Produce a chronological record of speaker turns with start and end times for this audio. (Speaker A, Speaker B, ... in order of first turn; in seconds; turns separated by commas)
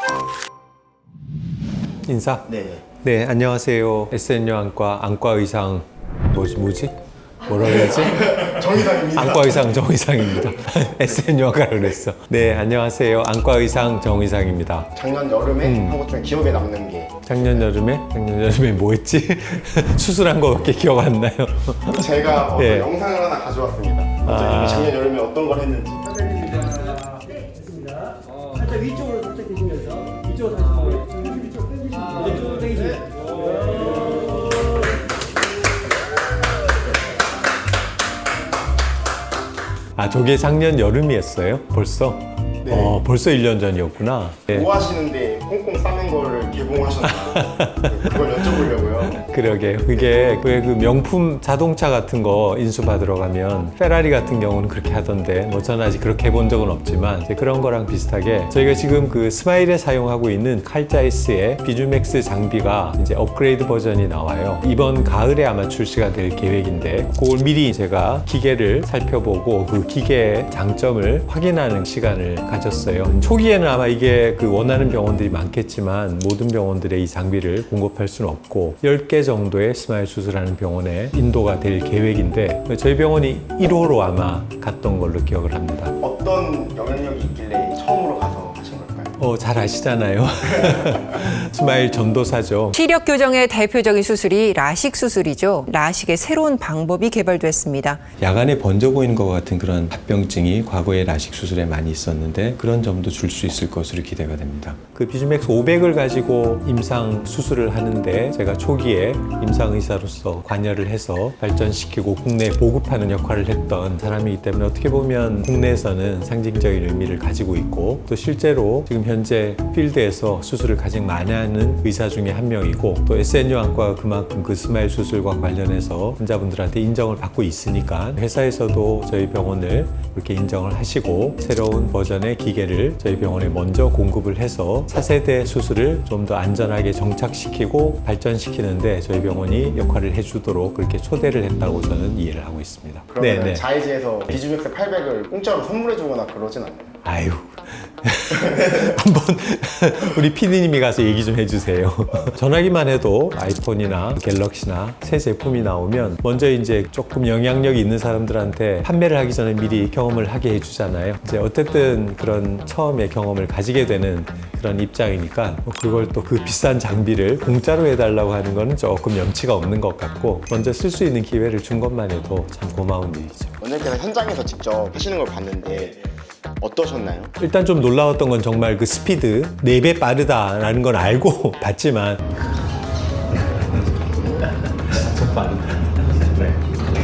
Speaker A: 2.0-14.9, Speaker B: 2.5-2.8, Speaker B: 7.5-9.8, Speaker B: 14.9-17.3, Speaker A: 15.6-16.0, Speaker A: 17.2-22.9, Speaker B: 21.8-26.5, Speaker A: 24.2-25.0, Speaker C: 28.6-31.3, Speaker C: 31.9-32.9, Speaker A: 40.0-44.5, Speaker B: 42.6-43.0, Speaker B: 44.5-49.2, Speaker A: 47.0-86.0, Speaker B: 86.0-89.2, Speaker A: 89.2-92.8, Speaker D: 92.7-98.0, Speaker A: 98.2-143.6, Speaker B: 143.1-147.0, Speaker A: 147.0-173.6, Speaker B: 173.6-177.3, Speaker A: 177.4-182.2, Speaker C: 184.8-186.7